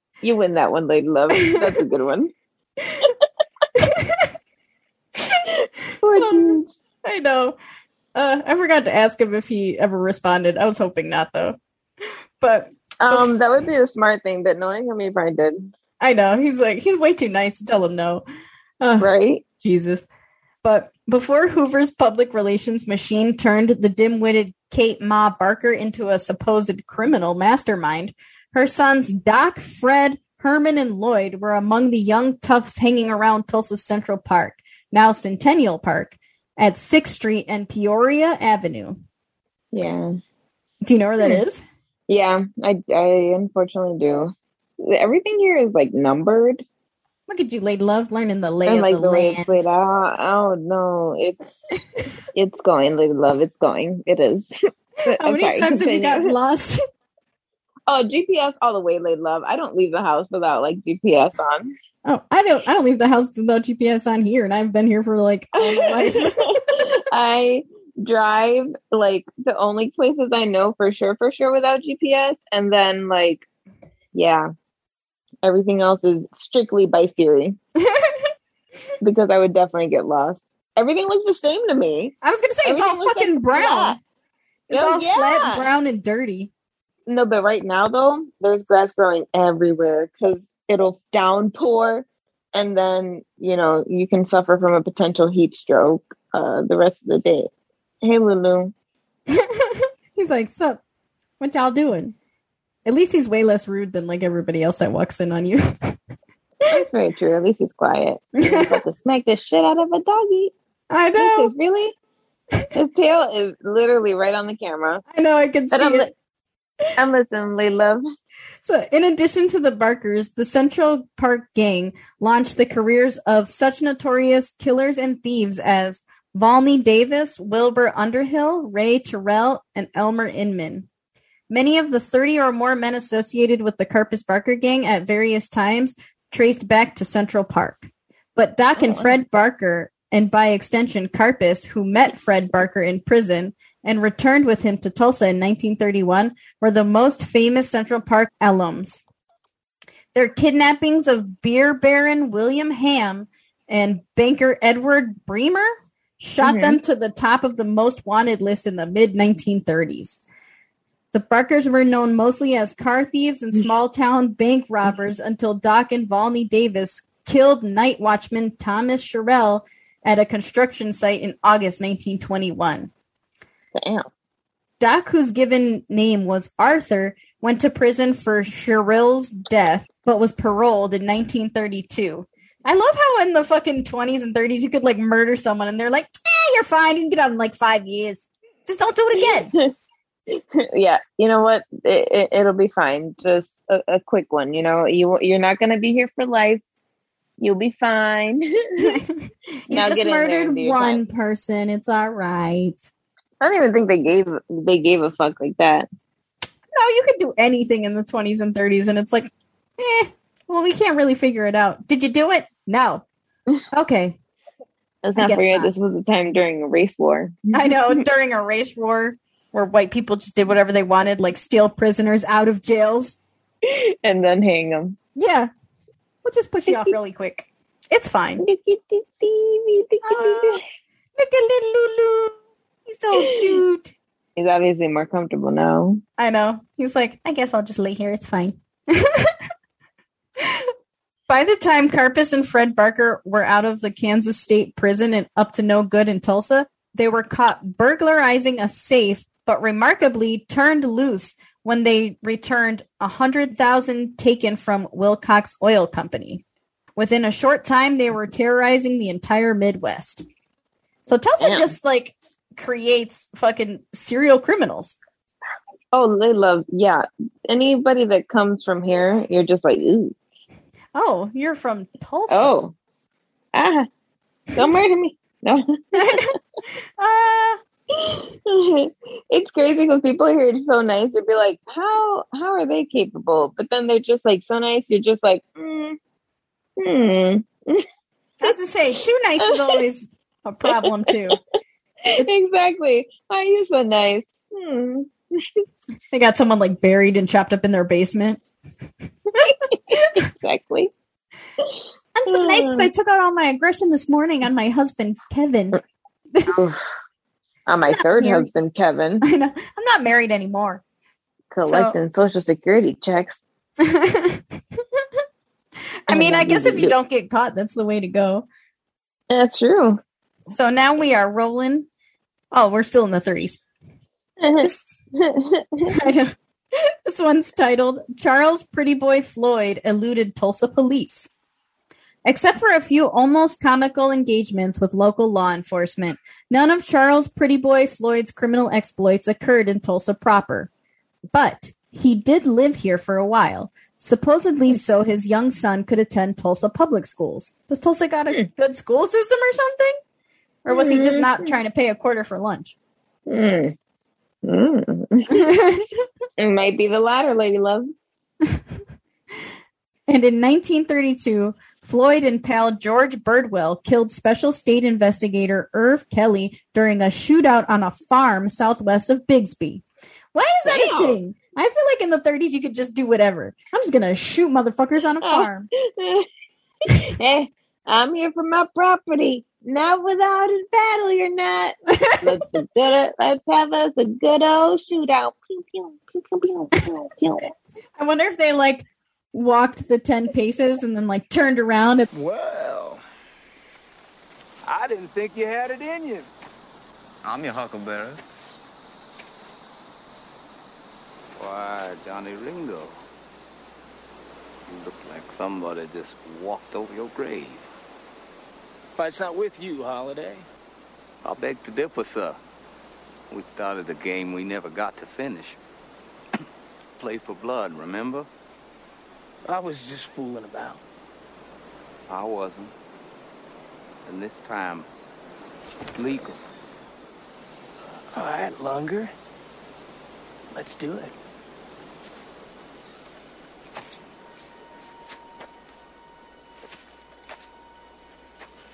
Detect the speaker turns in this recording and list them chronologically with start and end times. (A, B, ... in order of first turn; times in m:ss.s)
0:00.2-0:02.3 A
0:01.4-0:01.7 B
0:03.8-0:04.3 B
0:05.2-0:05.4 B
0:05.6-0:06.7 A
0:06.2-0:07.6 B
0:08.1-0:11.6 B
0:12.4-0:13.4 B
0:13.0-0:15.7 A
0:16.0-0:18.2 B
0:18.8-0:20.0 B
0:19.0-0:19.4 A
0:20.6-0:39.0 B
0:39.7-0:40.2 A
0:40.8-0:41.6 B
0:42.1-0:46.6 A
0:47.3-0:49.6 B
0:48.6-0:51.4 A
0:52.3-0:54.4 A
0:55.0-0:56.3 A
0:55.1-0:56.8 B
0:57.9-1:01.7 A
1:02.0-1:06.6 B
1:05.6-1:13.4 A
1:14.1-1:14.5 A
1:15.4-1:17.6 A
1:17.8-1:18.3 B
1:19.0-1:22.1 A
1:22.2-1:24.0 B
1:22.6-1:24.0 A
1:24.7-1:26.5 B
1:24.7-1:25.7 A
1:27.1-1:37.5 A
1:38.0-1:38.7 A
1:39.3-1:40.8 B
1:41.4-1:42.1 B
1:42.8-1:46.0 B
1:46.7-1:50.5 A
1:48.4-1:48.8 B
1:50.9-1:51.5 B
1:51.2-1:52.0 A
1:52.7-1:55.0 A
1:55.1-1:56.1 B
1:55.7-1:56.1 A
1:57.0-1:58.0 A
1:58.6-2:10.9 B
2:11.5-2:29.0 B
2:18.8-2:19.1 A
2:30.1-2:40.2 B
2:36.4-2:36.8 A
2:41.1-2:52.9 B
2:53.7-2:54.1 A
2:54.8-3:09.5 B
3:09.2-3:09.7 A
3:10.3-3:16.6 A
3:17.4-3:19.0 A
3:18.8-3:22.8 B
3:19.7-3:21.0 A
3:23.4-3:25.9 A
3:26.7-3:33.0 B
3:33.7-3:34.2 B
3:35.0-3:38.0 A
3:35.2-3:35.7 B
3:37.5-3:43.2 B
3:43.6-3:45.0 A
3:45.2-3:45.5 B
3:46.2-3:48.4 B
3:46.7-3:46.9 A
3:48.4-3:50.6 A
3:50.0-3:50.6 B
3:51.2-3:53.9 B
3:53.2-3:53.6 A
3:54.4-3:56.0 A
3:56.2-3:59.4 B
4:00.4-4:00.7 B
4:01.3-4:16.4 B
4:17.0-4:20.2 B
4:21.0-4:25.0 B
4:21.4-4:21.7 A
4:25.9-4:30.1 A
4:30.9-4:32.5 B
4:32.3-4:32.7 A
4:33.5-4:33.9 A
4:34.5-4:36.4 A
4:36.0-4:36.3 B
4:37.0-4:37.6 B
4:37.9-4:46.0 A
4:46.8-4:47.9 A
4:48.4-4:51.4 B
4:49.4-4:49.8 A
4:50.7-4:51.3 A
4:52.0-4:55.6 A
4:56.1-4:58.4 B
4:59.4-5:00.9 A
4:59.9-5:00.2 B
5:02.1-5:05.8 B
5:02.3-5:02.9 A
5:06.3-5:06.6 B
5:06.5-5:06.8 A
5:07.7-5:09.2 A
5:07.9-5:08.5 B
5:09.2-5:10.8 B
5:11.5-5:13.4 A
5:11.6-5:11.9 B
5:13.8-5:15.0 B
5:16.1-5:18.5 B
5:16.1-5:16.9 A
5:19.3-5:20.0 A
5:20.5-5:21.9 B
5:22.5-5:23.6 B
5:24.4-5:25.9 A
5:24.6-5:24.8 B
5:25.8-5:31.3 B
5:32.2-5:40.7 B
5:41.3-5:50.0 B
5:50.6-5:52.7 B
5:50.7-5:51.5 A
5:53.3-5:53.7 A
5:54.4-5:55.5 A
5:55.3-5:56.0 B
5:56.4-5:57.9 A
6:00.1-6:15.7 B
6:10.7-6:11.2 A
6:15.2-6:16.3 A
6:16.8-6:27.5 A
6:21.9-6:22.4 B
6:28.0-6:32.1 B
6:32.1-6:33.0 C
6:34.6-6:36.3 C
6:37.2-6:38.2 D
6:41.4-6:43.0 D
6:44.7-6:47.7 D
6:49.0-6:50.4 C
6:51.2-6:52.4 D
6:53.3-6:55.6 D
6:57.0-6:58.3 D
6:59.4-7:00.8 C
7:02.1-7:02.7 D
7:04.0-7:04.9 D
7:06.0-7:06.4 D
7:08.1-7:09.1 C
7:10.5-7:11.1 C